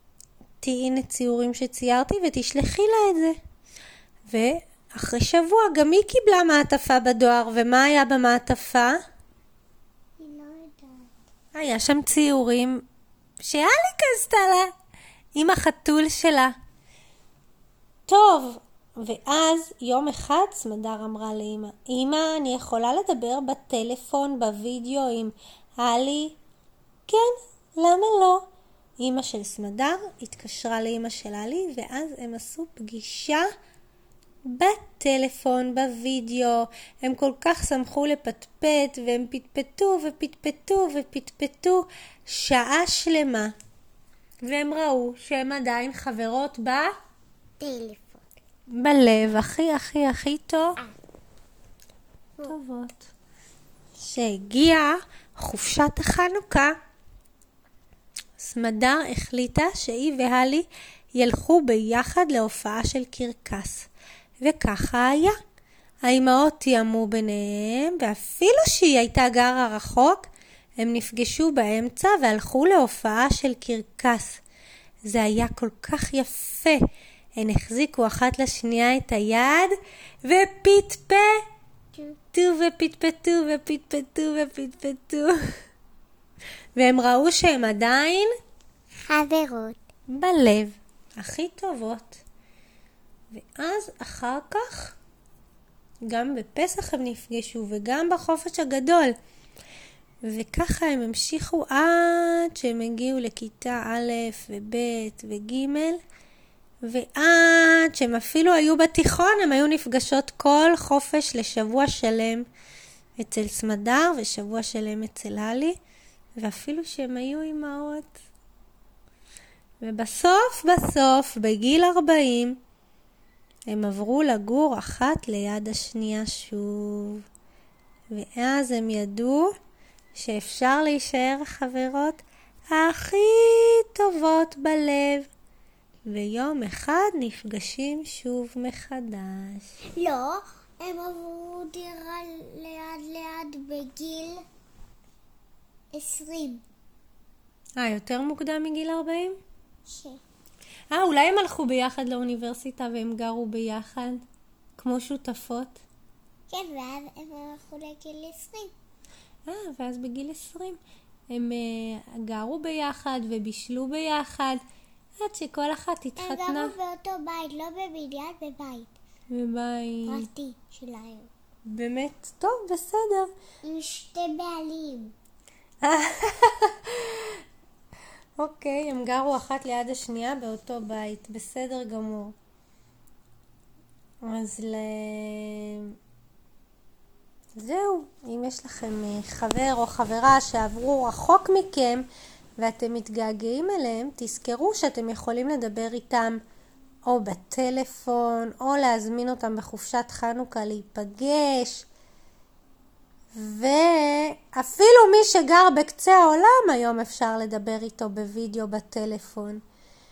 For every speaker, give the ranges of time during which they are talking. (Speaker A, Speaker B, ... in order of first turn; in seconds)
Speaker A: 0.6-3.4, 4.3-9.0, 11.5-12.8, 13.4-14.7, 15.3-16.5, 18.1-26.4, 27.1-28.4, 29.0-33.5, 34.5-43.5, 44.4-46.9, 48.7-50.8, 52.4-53.1, 54.0-56.7, 58.4-63.9, 64.4-65.4, 66.0-70.3, 70.8-74.4, 75.0-76.8, 77.4-81.4, 82.3-85.3, 86.8-88.3, 90.1-92.2, 93.3-95.0, 96.0-99.1, 100.2-106.0, 106.8-112.5, 113.2-115.8, 116.4-118.2, 119.8-122.6, 123.7-127.2, 128.1-129.5, 130.1-135.3, 136.1-139.7, 147.8-149.4, 150.9-154.2, 154.8-155.8, 159.5-160.8, 161.3-164.6, 165.2-166.7, 169.3-170.3, 171.7-173.3, 175.8-177.4, 178.4-182.3, 184.2-185.9, 187.6-192.1, 192.6-196.4, 197.1-201.8, 203.3-209.6
Speaker B: 10.2-11.1, 47.6-48.3, 89.0-89.8, 139.9-144.4, 145.9-146.6, 149.9-150.2, 156.5-158.7, 166.2-168.9, 170.1-171.3, 173.6-175.1